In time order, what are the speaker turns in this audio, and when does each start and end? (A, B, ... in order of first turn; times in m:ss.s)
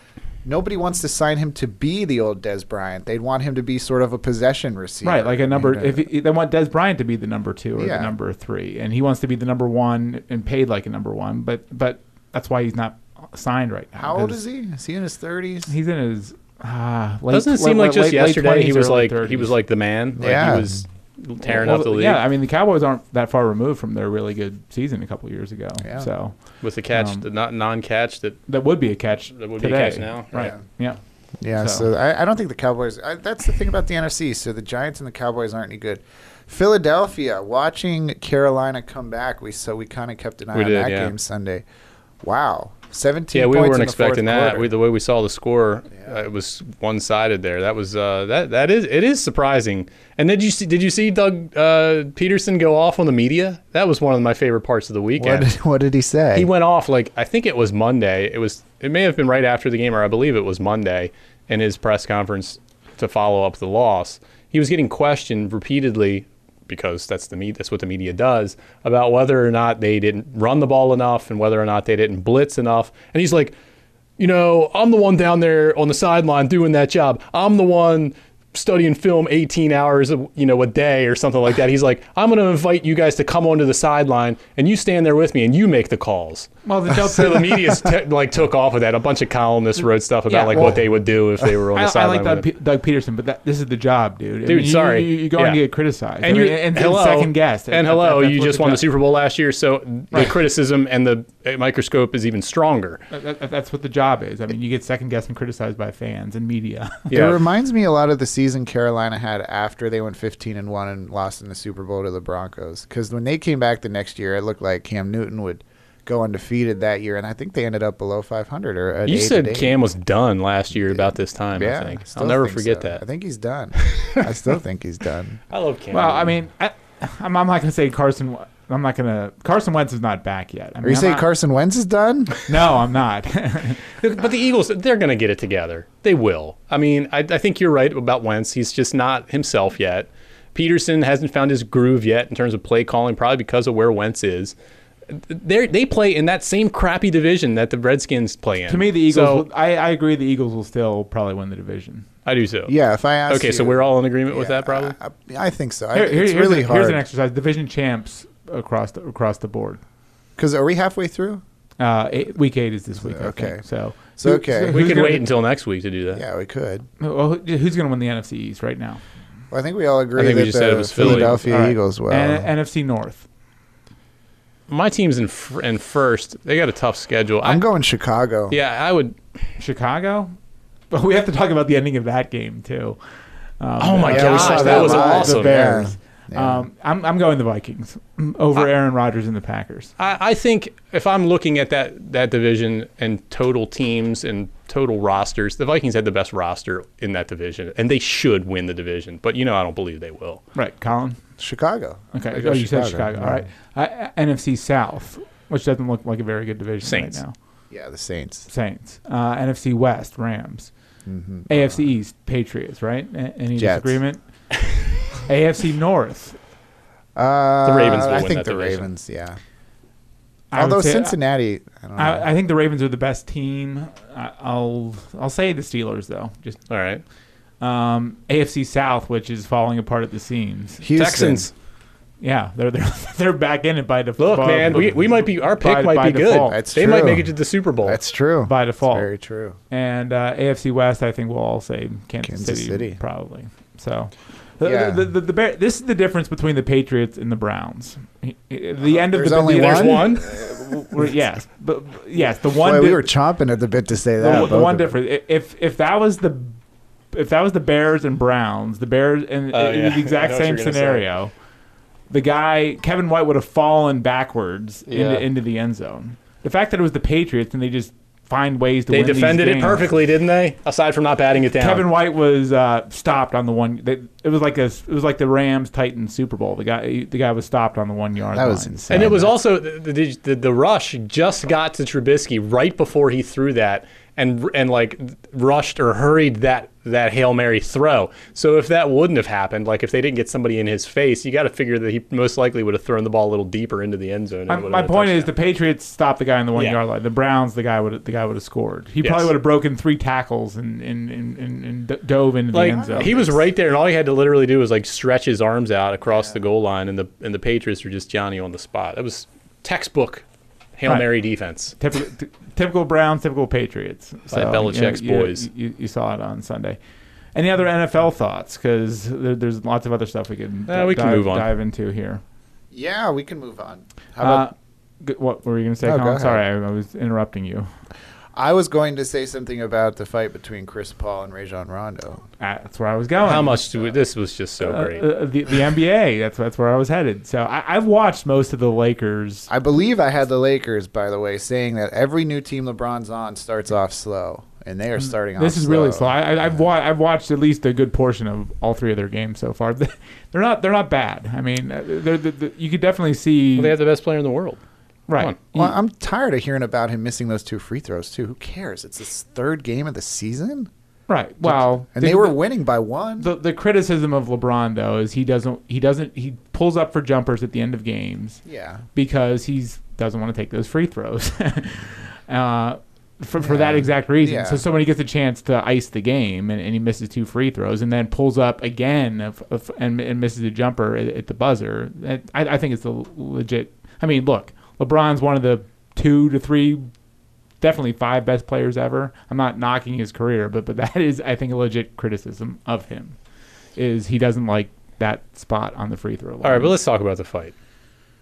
0:00.4-0:06.0 A
0:05.0-0:14.4 B
0:07.8-0:08.1 A
0:14.0-0:15.7 A
0:15.7-0:19.5 B
0:17.3-0:22.2 C
0:20.2-0:20.8 A
0:21.5-0:26.4 B
0:25.8-0:26.1 A
0:26.6-0:28.4 C
0:26.9-0:27.3 B
0:28.5-0:31.0 B
0:29.4-0:30.5 C
0:31.4-0:41.6 A
0:31.6-0:31.9 B
0:40.6-0:41.1 C
0:42.2-0:44.7 A
0:43.3-0:55.5 C
0:55.2-0:56.5 A
0:56.4-1:13.5 C
1:14.2-1:32.5 C
1:26.6-1:27.9 B
1:30.3-1:30.8 B
1:31.7-1:38.8 B
1:34.5-1:35.6 C
1:36.2-1:43.0 C
1:43.1-1:47.2 B
1:47.1-1:47.4 C
1:47.1-1:59.8 A
1:59.1-2:03.0 C
2:00.7-2:05.4 A
2:03.8-2:04.3 C
2:05.5-2:06.3 C
2:05.9-2:11.3 B
2:10.8-2:12.4 A
2:12.4-2:13.8 B
2:14.0-2:24.5 C
2:25.1-2:29.4 C
2:28.7-2:32.1 B
2:32.3-2:32.7 C
2:32.7-2:37.0 A
2:33.3-2:35.0 C
2:35.9-2:39.8 B
2:40.4-2:41.4 A
2:41.8-2:45.3 B
2:43.0-2:43.6 A
2:44.2-2:44.9 A
2:44.7-2:46.2 C
2:46.1-2:46.9 A
2:47.0-2:49.0 B
2:49.5-2:52.5 A
2:50.2-2:51.4 C
2:51.0-2:53.3 B
2:54.7-2:57.6 C
2:57.4-2:58.6 A
2:58.5-2:59.2 C
2:59.6-3:00.3 B
3:00.9-3:03.0 B
3:03.6-3:09.9 B
3:03.8-3:05.7 C
3:04.1-3:06.6 A
3:10.0-3:20.4 C
3:20.6-3:21.2 B
3:21.4-3:23.4 A
3:22.1-3:27.3 B
3:26.8-3:27.2 C
3:27.7-3:28.5 A
3:28.5-3:30.7 B
3:31.1-3:31.8 A
3:31.5-3:34.2 B
3:33.6-3:34.0 A
3:35.3-3:36.4 B
3:37.2-3:39.4 A
3:37.6-3:38.9 C
3:40.5-3:41.2 B
3:40.6-3:42.3 A
3:42.0-3:46.6 B
3:46.7-3:47.0 C
3:47.6-3:50.8 B
3:50.8-3:51.5 A
3:50.9-3:51.5 C
3:52.2-3:56.6 B
3:54.2-3:58.0 C
3:56.5-3:59.6 A
3:58.5-3:59.1 B
3:59.7-4:13.1 B
4:02.2-4:03.0 A
4:04.6-4:05.0 A
4:08.8-4:10.7 A
4:09.5-4:10.3 C
4:12.4-4:15.0 A
4:14.2-4:16.6 B
4:17.1-4:21.3 B
4:19.5-4:21.0 C
4:22.1-4:29.9 B
4:24.9-4:25.3 C
4:28.9-4:31.9 C
4:31.6-4:39.3 B
4:38.3-4:39.3 A
4:38.9-4:55.3 C
4:54.5-5:03.2 B
4:59.0-4:59.3 C
5:02.5-5:10.2 C
5:02.7-5:03.4 A
5:10.8-5:11.8 C
5:11.8-5:16.8 B
5:14.3-5:15.5 C
5:17.4-5:22.2 B
5:20.7-5:21.5 C
5:22.7-5:24.5 A
5:24.2-5:27.7 B
5:25.8-5:26.4 A
5:28.4-5:32.2 A
5:32.4-5:33.6 B
5:33.2-5:35.1 C
5:34.6-5:39.5 B
5:39.5-5:46.2 A
5:45.4-5:53.8 B
5:53.6-5:54.6 C
5:55.1-5:55.7 B
5:55.6-6:00.7 A
6:01.1-6:02.4 B
6:01.4-6:03.3 A
6:03.2-6:08.4 B
6:08.5-6:08.8 A
6:09.0-6:26.9 B
6:13.4-6:14.6 A
6:27.6-6:33.2 B
6:33.8-6:36.8 B
6:36.4-6:37.5 C